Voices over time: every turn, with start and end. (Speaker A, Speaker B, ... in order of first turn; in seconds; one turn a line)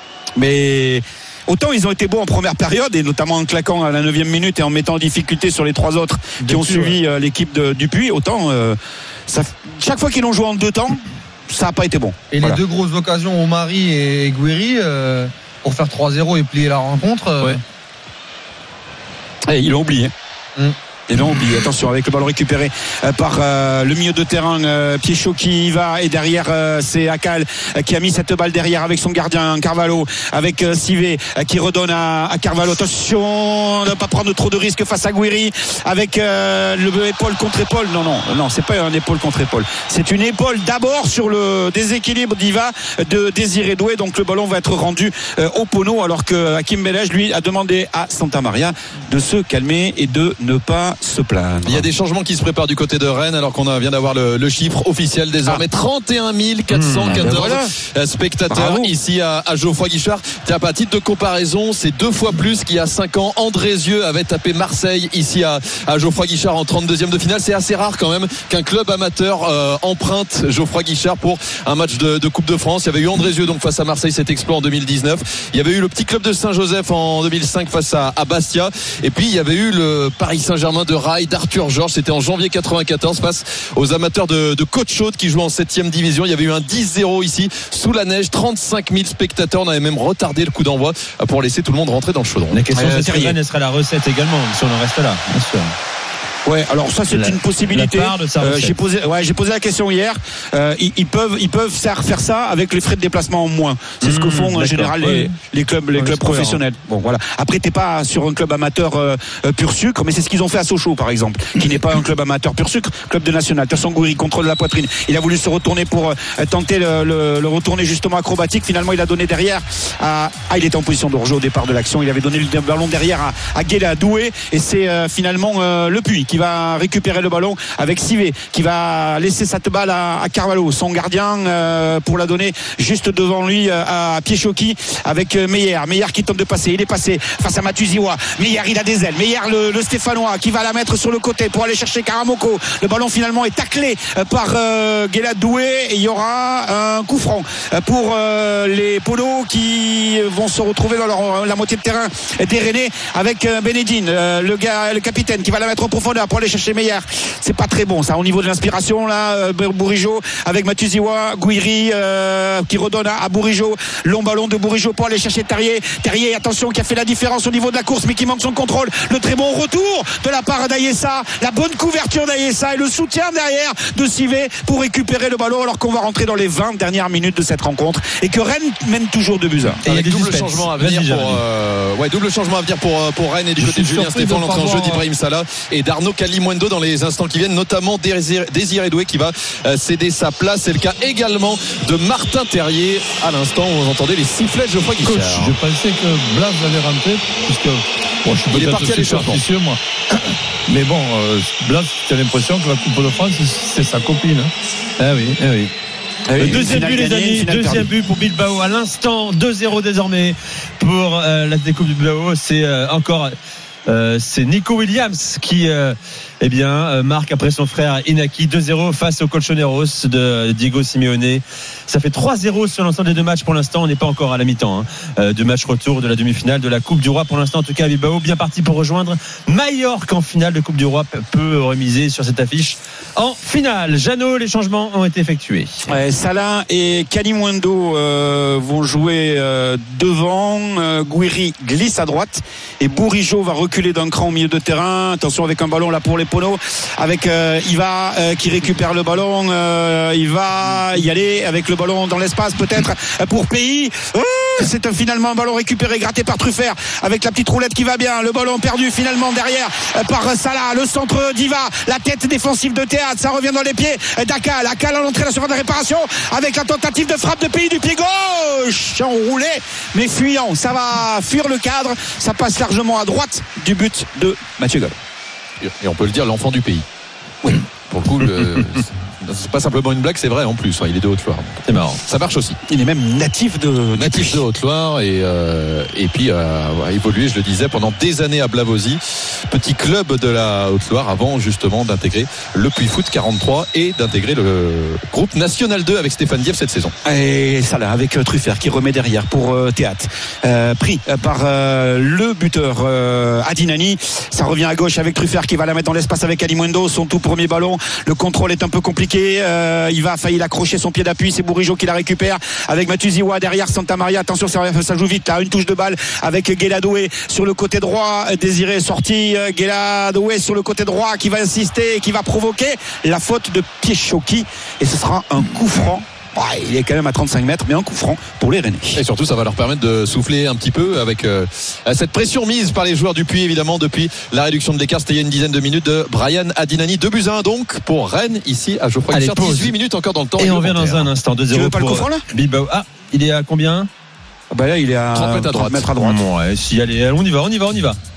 Speaker A: 0.4-12.6
Speaker B: 12.3-17.6
Speaker A: 19.5-20.1
Speaker A: 21.1-51.9
Speaker C: 51.6-92.6
Speaker D: 56.7-57.3
Speaker A: 57.1-57.7
Speaker A: 58.5-58.9
Speaker D: 92.5-95.7
Speaker A: 92.8-93.4
Speaker A: 96.5-179.8
Speaker D: 97.1-98.8
Speaker D: 104.0-105.3
Speaker D: 106.0-106.6
Speaker D: 179.8-181.4
Speaker C: 179.8-195.6
Speaker B: 183.6-185.0
Speaker E: 195.0-204.5
Speaker C: 198.5-199.4
Speaker D: 205.0-205.7
Speaker A: 206.3-207.9
Speaker D: 206.4-213.3
Speaker D: 213.9-236.0
Speaker A: 235.9-275.0
Speaker C: 275.6-276.9
Speaker C: 277.9-282.6
Speaker D: 281.7-282.0
Speaker A: 282.7-284.4
Speaker C: 284.0-296.9
Speaker A: 297.1-329.0
Speaker C: 328.9-341.1
Speaker D: 339.1-339.7
Speaker D: 340.4-343.9
Speaker A: 341.5-342.3
Speaker A: 344.5-346.2
Speaker C: 345.1-345.9
Speaker D: 346.0-348.0